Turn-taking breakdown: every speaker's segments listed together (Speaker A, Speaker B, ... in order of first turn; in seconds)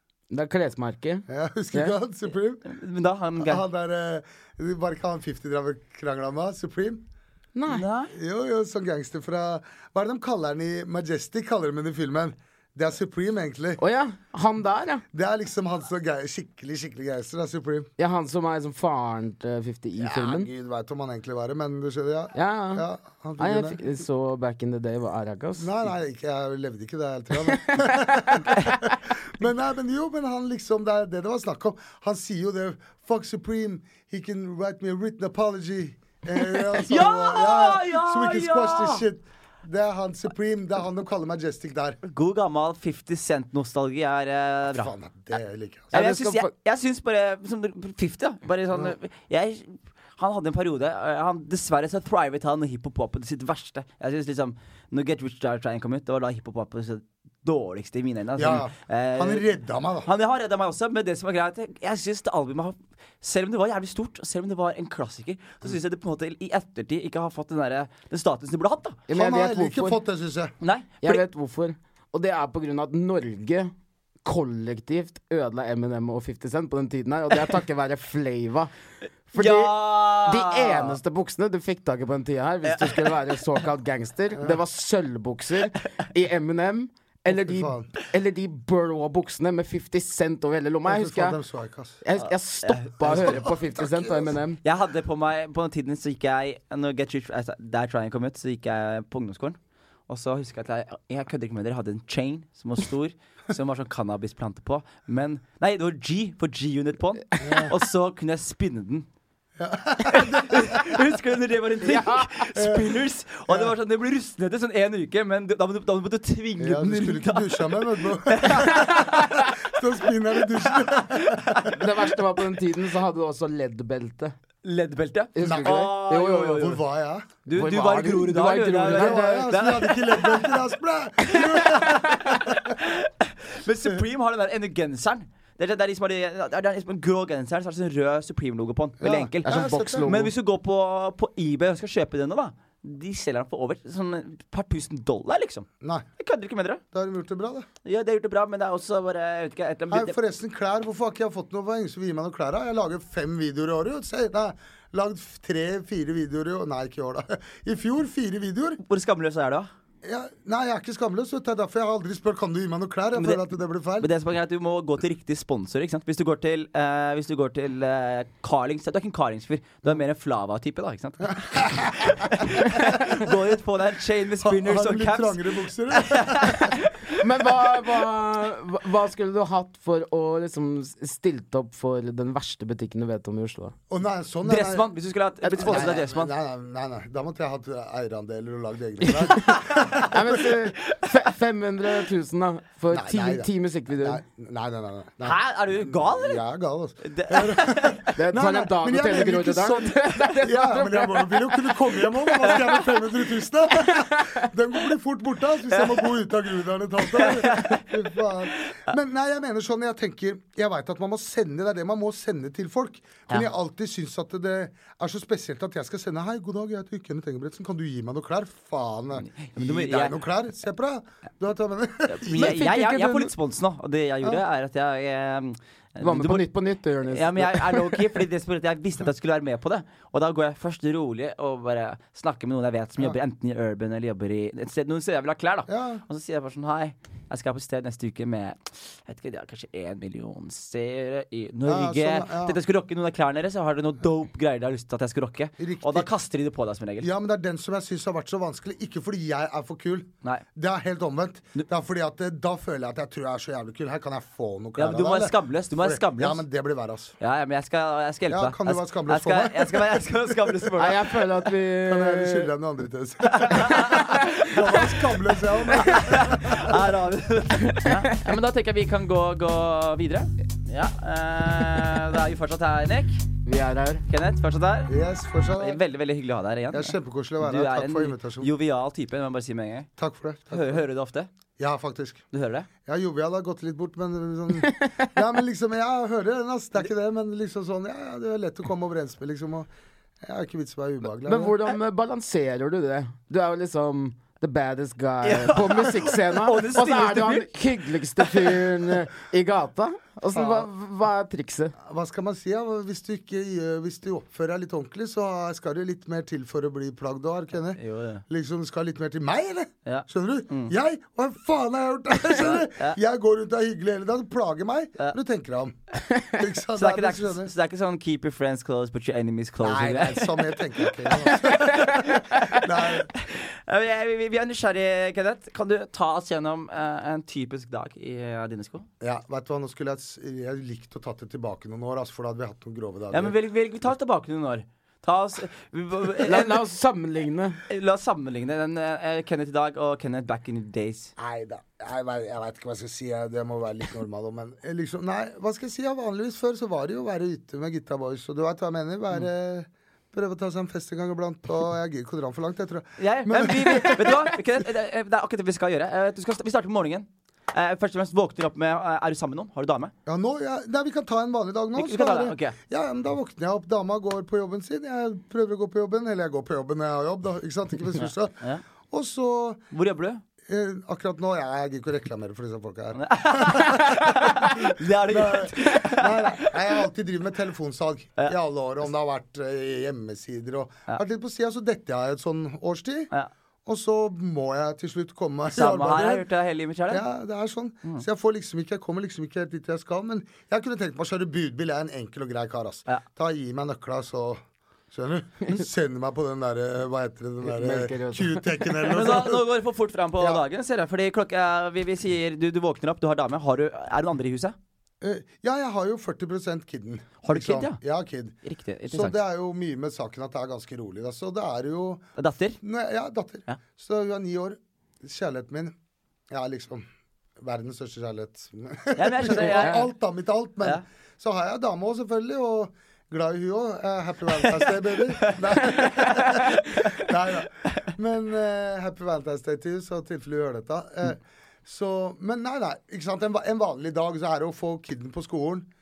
Speaker A: 0.3-1.9, 7.5-7.9, 13.8-15.0, 18.0-20.5, 22.3-22.8, 23.4-25.8, 27.5-28.9, 45.9-46.5, 69.1-70.0, 71.0-73.7, 74.2-78.7, 79.3-91.4, 92.0-94.6, 111.8-112.3, 121.7-124.3, 125.3-126.7, 127.5-129.5, 139.4-140.3, 177.2-183.8, 185.4-185.9, 189.1-194.2, 198.2-201.7, 203.8-204.5, 222.3-223.3, 226.0-228.2, 260.8-262.5, 263.8-264.1, 267.7-268.2, 273.4-274.0, 284.6-285.1, 291.2-301.8, 316.1-316.3, 336.2-337.6, 397.4-398.7, 419.4-419.8
Speaker B: 1.3-2.6, 3.4-7.0, 8.1-13.8, 15.1-17.9, 20.0-23.8, 25.6-42.0, 44.7-45.9, 58.4-60.1, 69.1-70.5, 87.3-87.9, 90.9-92.0, 93.0-94.3, 107.4-107.7, 109.6-111.1, 112.5-113.7, 116.6-121.9, 125.4-125.9, 126.5-127.3, 128.8-132.8, 139.0-140.2, 146.9-147.7, 149.9-158.8, 160.0-164.1, 171.3-173.3, 174.4-176.8, 183.9-184.9, 185.6-190.4, 192.9-193.5, 194.0-199.9, 200.4-222.6, 235.7-236.0, 241.6-242.6, 245.6-246.1, 247.0-257.1, 258.3-260.7, 261.9-266.8, 274.9-275.8, 276.7-278.5, 280.0-280.8, 281.6-282.2, 282.9-289.7, 290.2-291.6, 300.3-300.7, 301.8-315.8, 316.3-317.5, 319.6-323.1, 329.0-333.3, 341.2-354.6, 360.1-369.6, 370.5-383.1, 383.6-386.2, 386.9-394.4, 394.9-399.4, 405.0-408.4, 408.9-412.0, 412.6-415.7, 416.3-416.8, 417.4-435.7
Speaker C: 2.6-3.6, 7.7-8.1, 36.4-39.0, 42.0-44.9, 45.9-59.5, 60.0-69.0, 70.6-71.2, 79.3-80.9, 92.2-93.4, 94.6-109.0, 110.1-121.6, 124.6-126.8, 127.5-130.6, 131.3-146.8, 147.8-150.2, 158.8-159.7, 163.1-163.4, 164.0-177.2, 184.4-186.3, 189.7-190.1, 195.2-196.4, 197.0-198.1, 199.8-200.4, 202.5-202.8, 205.7-206.0, 207.1-207.9, 219.3-220.1, 222.1-226.4, 227.1-247.1, 254.8-256.4, 257.2-261.4, 263.2-273.2, 274.1-274.9, 275.6-279.9, 280.5-281.3, 282.3-282.7, 295.2-298.6, 307.8-308.2, 309.9-310.7, 312.4-313.0, 316.8-328.9, 333.1-336.6, 337.7-341.1, 353.0-359.9, 361.8-362.5, 369.7-370.2, 372.9-376.6, 385.5-387.0, 398.9-404.5, 407.2-407.8, 408.4-409.1, 412.2-412.6, 418.9-419.9, 425.1-427.0